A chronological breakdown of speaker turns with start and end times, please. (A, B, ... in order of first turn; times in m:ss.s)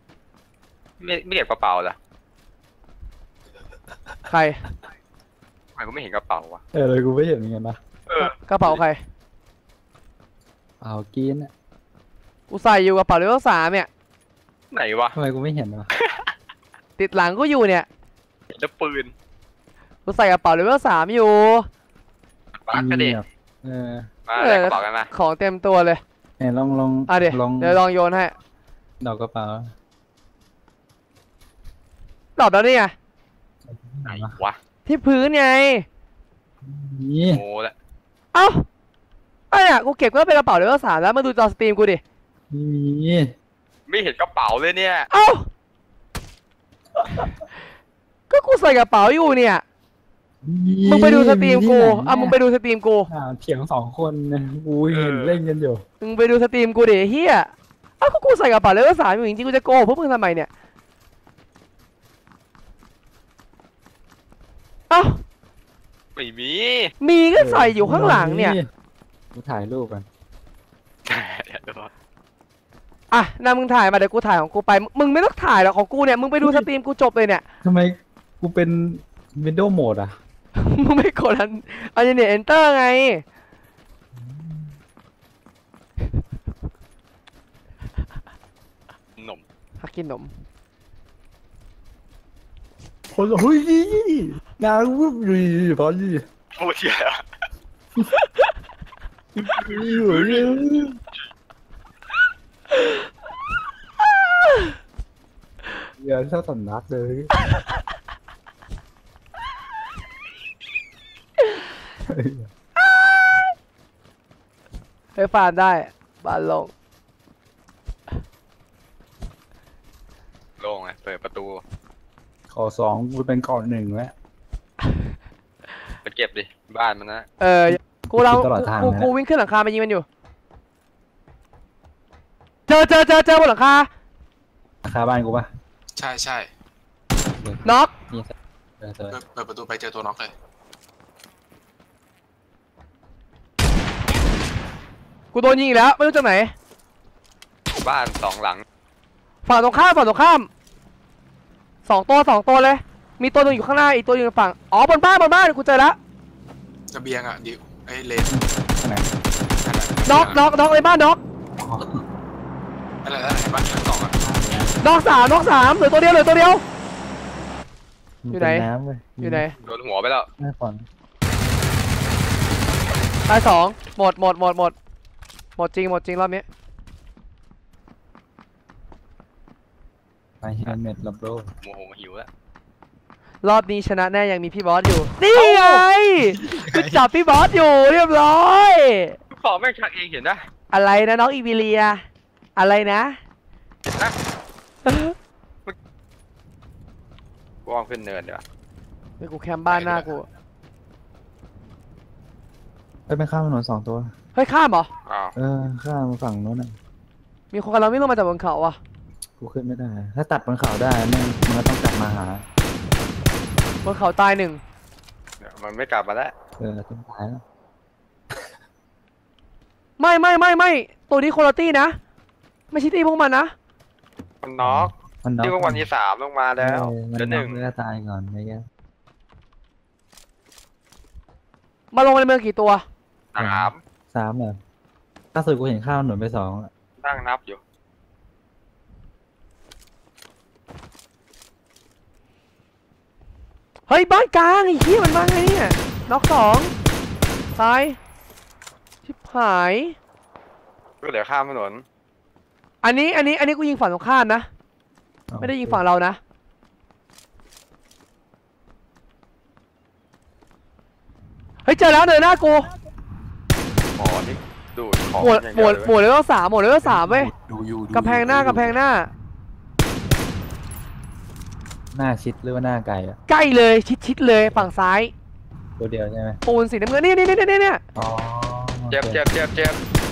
0:01.0-0:02.0 A
0:04.3-0:04.6 B
0:05.7-0:06.6 A
0:06.7-0:07.8 C
0:08.1-0:08.8 A
0:08.2-0:09.0 B
0:10.8-0:11.5 C
0:12.5-0:13.9 B
0:14.7-0:15.2 A
0:15.1-0:15.9 C
0:16.0-0:16.2 A
0:17.0-0:17.9 B
0:18.5-0:19.1 A
0:20.0-0:21.7 B
0:22.5-0:23.2 A
0:22.7-0:24.1 C
0:24.2-0:25.1 A
0:24.4-0:26.0 B
0:26.4-0:27.8 C
0:27.1-0:28.3 B
0:29.0-0:29.7 C
0:32.4-0:32.9 B
0:33.7-0:34.4 C
0:34.0-0:34.6 A
0:34.8-0:35.8 B
0:36.6-0:37.4 C
0:37.3-0:37.7 A
0:38.3-0:38.6 B
0:39.5-0:42.0 B
0:42.5-0:43.3 C
0:43.9-0:45.1 A
0:45.1-0:45.5 B
0:48.3-0:49.6 B
0:50.4-0:52.4 C
0:50.8-0:53.1 B
0:53.1-0:55.8 C
0:54.9-0:55.4 A
0:56.0-1:00.5 B
1:04.9-1:05.2 B
1:06.2-1:06.9 A
1:07.0-1:08.6 B
1:07.4-1:08.6 C
1:09.3-1:10.0 C
1:11.1-1:11.9 A
1:13.1-1:17.4 B
1:17.6-1:20.2 C
1:20.6-1:23.2 B
1:24.2-1:24.8 C
1:29.2-1:29.4 A
1:29.8-1:30.4 B
1:33.1-1:36.2 C
1:36.5-1:37.2 A
1:39.4-1:41.0 C
1:39.6-1:40.6 A
1:46.0-1:47.4 C
1:52.0-1:52.5 C
1:55.1-1:56.7 B
2:00.6-2:01.6 A
2:02.5-2:04.1 C
2:06.0-2:07.3 A
2:07.4-2:10.0 B
2:07.7-2:09.1 C
2:12.7-2:13.9 B
2:14.8-2:15.5 C
2:16.0-2:16.5 D
2:17.4-2:19.2 C
2:17.6-2:17.9 B
2:19.1-2:20.3 D
2:25.3-2:26.5 B
2:27.8-2:28.6 A
2:29.4-2:30.5 B
2:31.8-2:36.0 B
2:36.9-2:38.3 D
2:38.3-2:39.1 C
2:39.6-2:40.4 D
2:40.0-2:41.2 B
2:41.6-2:42.0 C
2:43.0-2:43.9 D
2:43.7-2:44.1 A
2:44.2-2:44.7 C
2:44.8-2:46.6 B
2:48.2-2:49.5 C
2:48.3-2:48.7 B
2:49.2-2:49.5 B
2:49.6-2:50.3 A
2:50.4-2:50.9 C
2:53.3-2:54.7 B
2:55.6-2:56.4 B
3:00.4-3:01.5 C
3:01.6-3:02.3 A
3:03.4-3:09.2 B
3:05.3-3:07.0 D
3:09.3-3:10.4 A
3:10.7-3:12.0 B
3:12.6-3:13.2 B
3:14.8-3:15.1 B
3:17.6-3:18.4 A
3:19.2-3:20.2 B
3:23.1-3:24.1 C
3:24.3-3:24.9 B
3:25.0-3:25.3 A
3:25.4-3:26.7 C
3:27.5-3:28.8 B
3:29.4-3:32.4 C
3:33.8-3:34.6 B
3:35.4-3:36.3 A
3:36.6-3:37.4 C
3:40.0-3:42.0 B
3:42.7-3:43.5 B
3:44.4-3:47.6 A
3:44.6-3:45.9 C
3:46.6-3:48.6 C
3:51.9-3:52.8 B
3:53.3-3:53.8 A
3:53.4-3:54.6 C
3:55.3-3:56.7 C
3:57.0-3:57.6 A
4:03.9-4:06.7 B
4:07.6-4:08.0 B
4:09.0-4:10.0 B
4:11.0-4:11.8 A
4:12.8-4:14.5 B
4:15.3-4:15.8 C
4:15.4-4:16.2 B
4:21.6-4:22.7 B
4:24.0-4:25.9 A
4:25.2-4:27.3 B
4:26.8-4:28.8 D
4:27.9-4:29.1 B
4:31.9-4:33.2 C
4:33.3-4:35.1 B
4:35.8-4:36.4 C
4:36.4-4:37.8 B
4:37.9-4:39.2 C
4:38.9-4:39.8 A